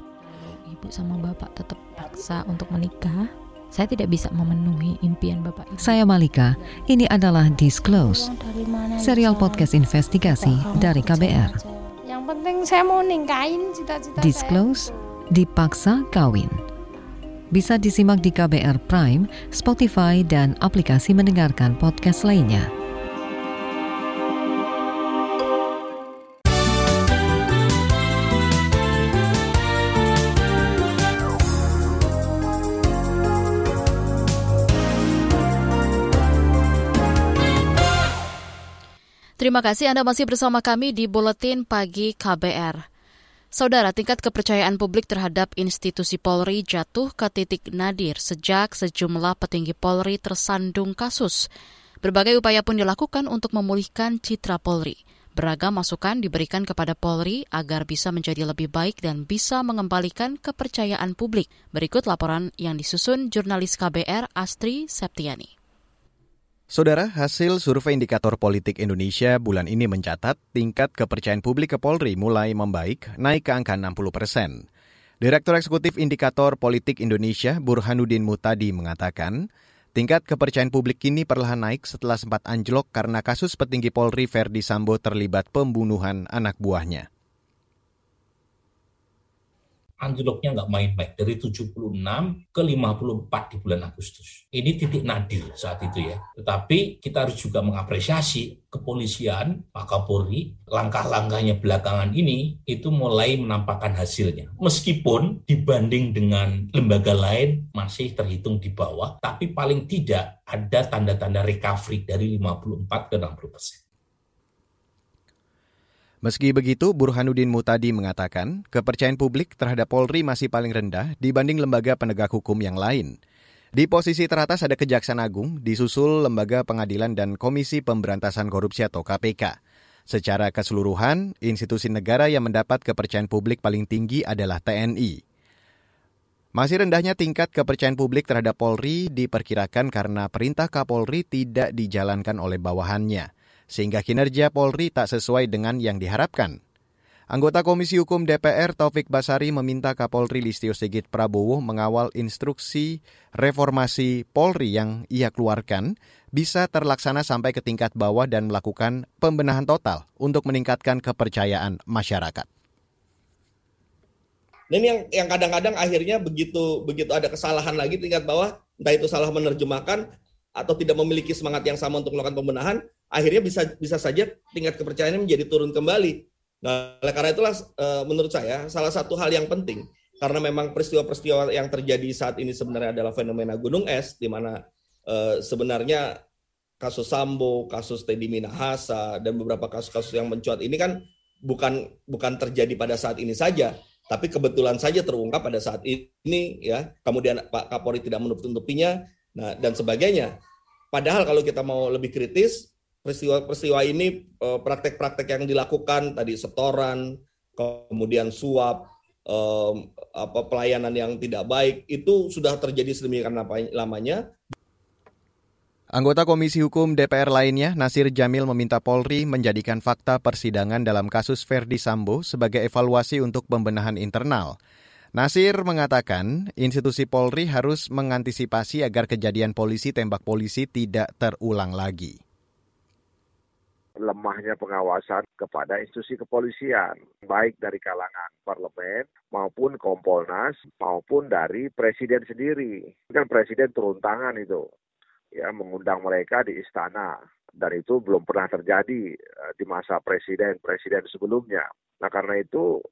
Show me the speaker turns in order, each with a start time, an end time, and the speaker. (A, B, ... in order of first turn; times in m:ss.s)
0:00.2-0:06.0 A
0:05.8-0:08.3 B
0:08.0-0:09.7 C
0:09.0-0:11.6 B
0:10.2-0:14.8 C
0:14.2-0:16.6 B
0:17.5-0:22.7 B
0:39.4-0:42.8 D
0:43.5-0:51.5 D
0:52.0-1:05.5 D
1:06.7-1:14.6 E
1:15.2-1:27.0 E
1:30.0-1:53.8 F
1:56.2-2:03.2 E
2:03.8-2:09.6 E
2:10.1-2:15.2 E
2:16.5-2:26.6 E
2:27.3-2:42.5 E
2:44.7-2:50.0 G
2:50.6-3:06.2 G
3:06.8-3:20.3 G
3:20.9-3:34.2 G
3:35.9-3:44.6 E
3:45.1-3:52.2 E
3:54.0-4:04.6 H
4:05.4-4:12.6 H